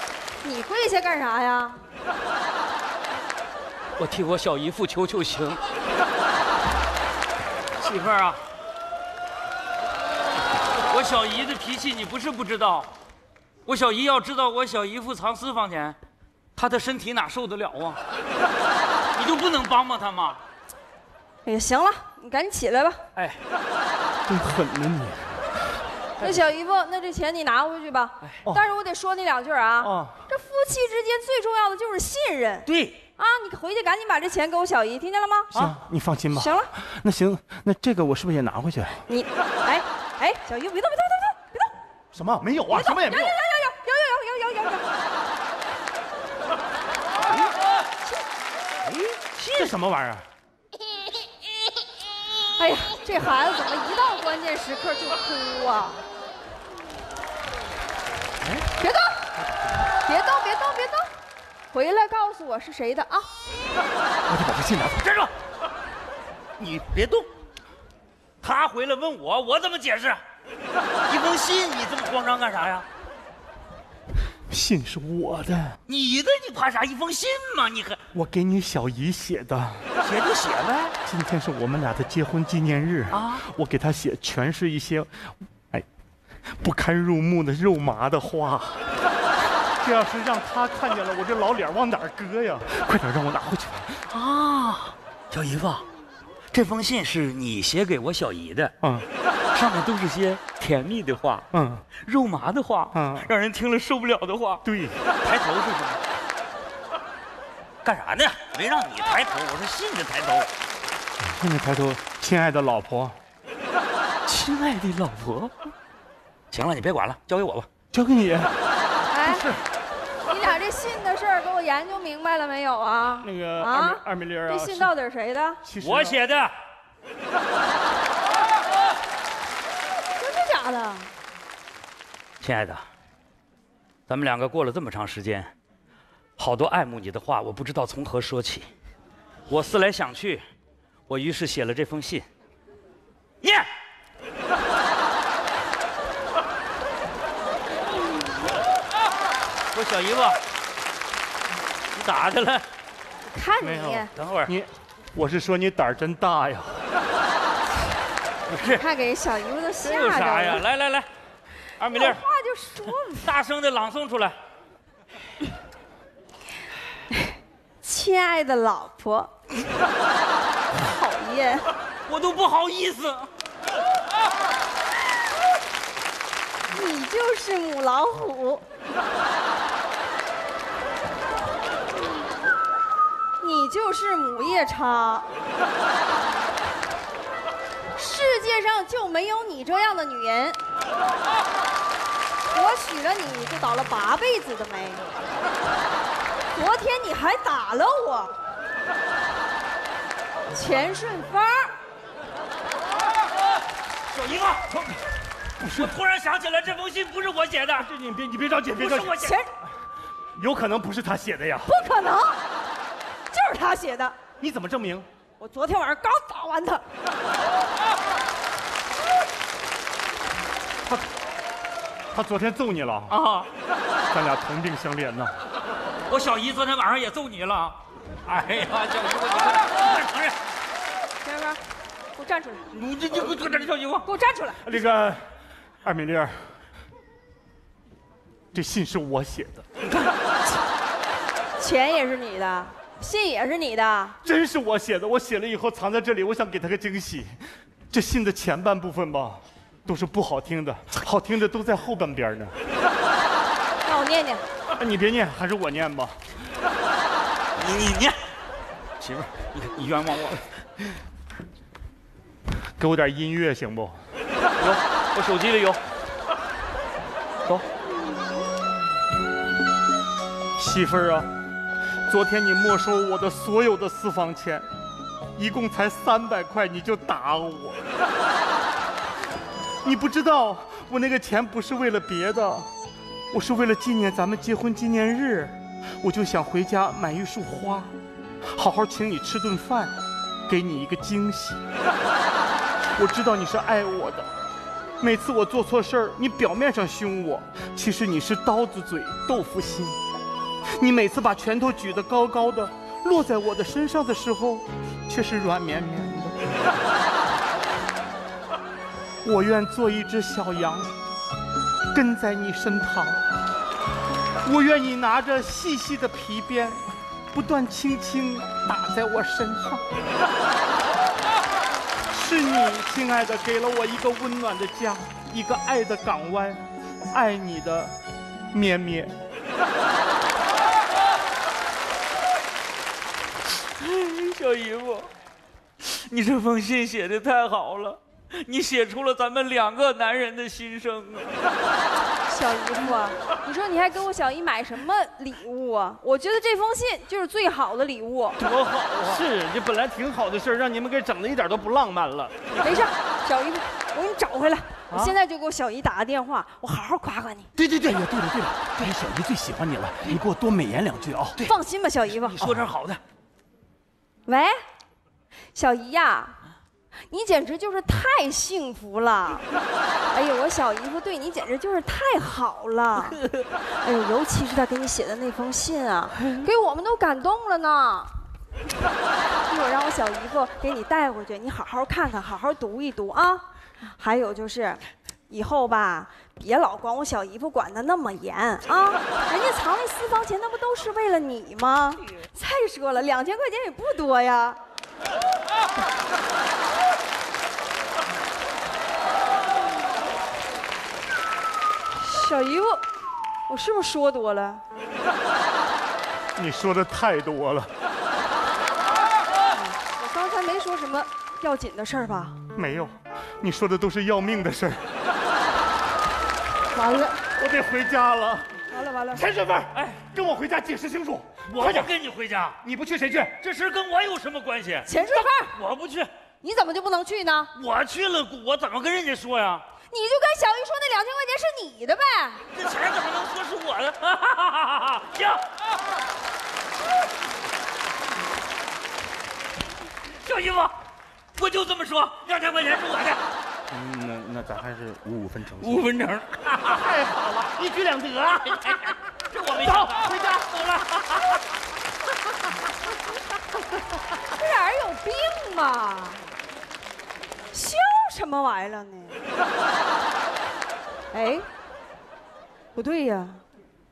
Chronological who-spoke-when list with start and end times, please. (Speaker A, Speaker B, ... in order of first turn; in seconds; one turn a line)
Speaker A: 0.4-1.8
Speaker B: 4.0-5.6
Speaker B: 7.8-8.4
Speaker B: 10.9-12.9
Speaker B: 13.7-15.9
Speaker B: 16.6-18.0
Speaker B: 19.1-20.4
Speaker A: 21.4-23.0
Speaker B: 23.1-23.4
Speaker C: 24.3-25.5
Speaker A: 26.2-35.5
Speaker C: 29.8-30.2
Speaker B: 32.6-33.0
Speaker C: 35.5-39.0
Speaker A: 36.3-36.7
Speaker A: 39.1-41.7
Speaker C: 42.1-43.3
Speaker A: 42.7-44.8
Speaker A: 48.0-48.3
Speaker B: 49.1-49.7
Speaker C: 49.5-50.2
Speaker A: 52.5-56.0
Speaker C: 58.4-58.7
Speaker A: 58.8-59.2
Speaker C: 59.3-59.9
Speaker A: 60.0-61.1
Speaker A: 61.7-63.3
Speaker C: 64.3-65.0
Speaker B: 64.9-65.3
Speaker B: 66.6-67.3
Speaker B: 68.4-70.2
Speaker B: 71.1-72.8
Speaker C: 74.5-75.8
Speaker B: 75.9-78.0
Speaker C: 78.1-79.9
Speaker B: 80.0-80.9
Speaker C: 81.0-85.8
Speaker B: 83.1-83.5
Speaker C: 86.5-89.0
Speaker C: 89.8-94.0
Speaker B: 94.1-95.8
Speaker B: 96.5-98.7
Speaker C: 98.8-99.1
Speaker B: 99.5-101.5
Speaker C: 101.5-101.8
Speaker B: 102.0-104.6
Speaker C: 102.9-103.3
Speaker C: 104.6-105.0
Speaker B: 105.2-106.0
Speaker B: 107.8-110.5
Speaker C: 111.2-113.2
Speaker B: 114.2-115.5
Speaker B: 116.5-117.7
Speaker C: 117.9-118.6
Speaker A: 119.1-119.5
Speaker C: 119.2-119.7
Speaker A: 120.2-125.6
Speaker C: 123.2-124.9
Speaker C: 125.6-126.2
Speaker B: 125.8-126.5
Speaker A: 130.2-131.1
Speaker B: 132.4-132.8
Speaker B: 134.1-135.5
Speaker B: 136.4-138.7
Speaker B: 139.5-140.4
Speaker B: 141.1-142.2
Speaker B: 143.4-143.7
Speaker B: 149.7-150.4
Speaker B: 151.9-152.6
Speaker A: 153.3-154.1
Speaker C: 153.6-156.9
Speaker B: 154.1-154.5
Speaker B: 158.5-158.8
Speaker A: 158.6-160.6
Speaker B: 159.8-161.1
Speaker B: 161.8-162.2
Speaker A: 161.9-163.3
Speaker B: 162.8-164.3
Speaker A: 167.1-169.3
Speaker A: 170.7-171.7
Speaker B: 172.1-173.3
Speaker A: 176.7-178.6
Speaker A: 183.4-185.3
Speaker A: 187.9-190.6
Speaker A: 192.5-195.0
Speaker A: 196.5-198.3
Speaker A: 200.5-201.7
Speaker B: 204.1-204.9
Speaker C: 205.6-205.9
Speaker B: 205.6-207.9
Speaker C: 207.8-209.2
Speaker B: 208.7-209.4
Speaker A: 209.2-209.5
Speaker C: 210.3-211.7
Speaker A: 211.7-212.4
Speaker A: 213.3-214.2
Speaker C: 214.4-215.1
Speaker A: 215.4-216.8
Speaker C: 222.1-223.2
Speaker B: 223.1-223.5
Speaker C: 224.1-225.3
Speaker B: 226.1-230.4
Speaker A: 231.2-231.6
Speaker A: 232.2-232.7
Speaker B: 232.7-234.1
Speaker A: 234.0-234.8
Speaker C: 234.6-235.3
Speaker C: 235.8-236.5
Speaker C: 238.5-239.6
Speaker B: 239.8-240.1
Speaker A: 241.6-244.2
Speaker C: 244.2-252.6
Speaker A: 253.8-254.4
Speaker C: 254.8-256.2
Speaker B: 257.6-258.2
Speaker B: 259.0-260.5
Speaker C: 262.8-264.0
Speaker B: 264.6-265.8
Speaker C: 270.6-271.3
Speaker C: 272.1-274.7
Speaker C: 275.4-277.9
Speaker C: 279.8-282.7
Speaker C: 283.3-287.9
Speaker C: 288.5-289.9
Speaker C: 290.5-291.6
Speaker C: 292.9-294.3
Speaker C: 295.0-300.0
Speaker C: 300.7-306.5
Speaker C: 309.2-310.9
Speaker C: 311.9-313.3
Speaker C: 314.4-319.8
Speaker C: 322.1-327.9
Speaker C: 328.5-329.1
Speaker B: 333.8-335.1
Speaker B: 335.8-341.4
Speaker A: 342.3-348.4
Speaker C: 348.4-352.8
Speaker A: 352.6-357.5
Speaker C: 357.5-361.4
Speaker A: 361.4-362.5
Speaker B: 362.3-363.0
Speaker A: 364.2-364.5
Speaker A: 365.5-366.4
Speaker A: 367.1-369.5
Speaker A: 370.1-373.2
Speaker A: 373.7-378.1
Speaker A: 379.4-383.4
Speaker A: 383.9-394.6
Speaker A: 401.9-402.8
Speaker A: 403.5-404.6
Speaker C: 406.4-407.7
Speaker A: 409.5-412.4
Speaker C: 412.5-414.9
Speaker A: 416.7-417.2
Speaker C: 417.4-418.5
Speaker A: 418.7-419.3
Speaker C: 419.1-421.9
Speaker B: 419.7-420.0
Speaker B: 421.5-422.6
Speaker C: 422.6-423.4
Speaker B: 423.4-426.1
Speaker A: 424.9-425.6
Speaker A: 426.4-427.5
Speaker B: 427.5-429.6
Speaker A: 429.9-432.4
Speaker B: 432.5-435.4
Speaker B: 440.2-440.7
Speaker B: 441.3-443.2
Speaker C: 443.7-445.9
Speaker B: 445.6-447.0
Speaker C: 446.7-448.9
Speaker B: 448.4-451.4
Speaker C: 449.6-450.5
Speaker A: 454.3-456.2
Speaker A: 457.5-459.2
Speaker A: 461.1-461.5
Speaker A: 462.7-463.4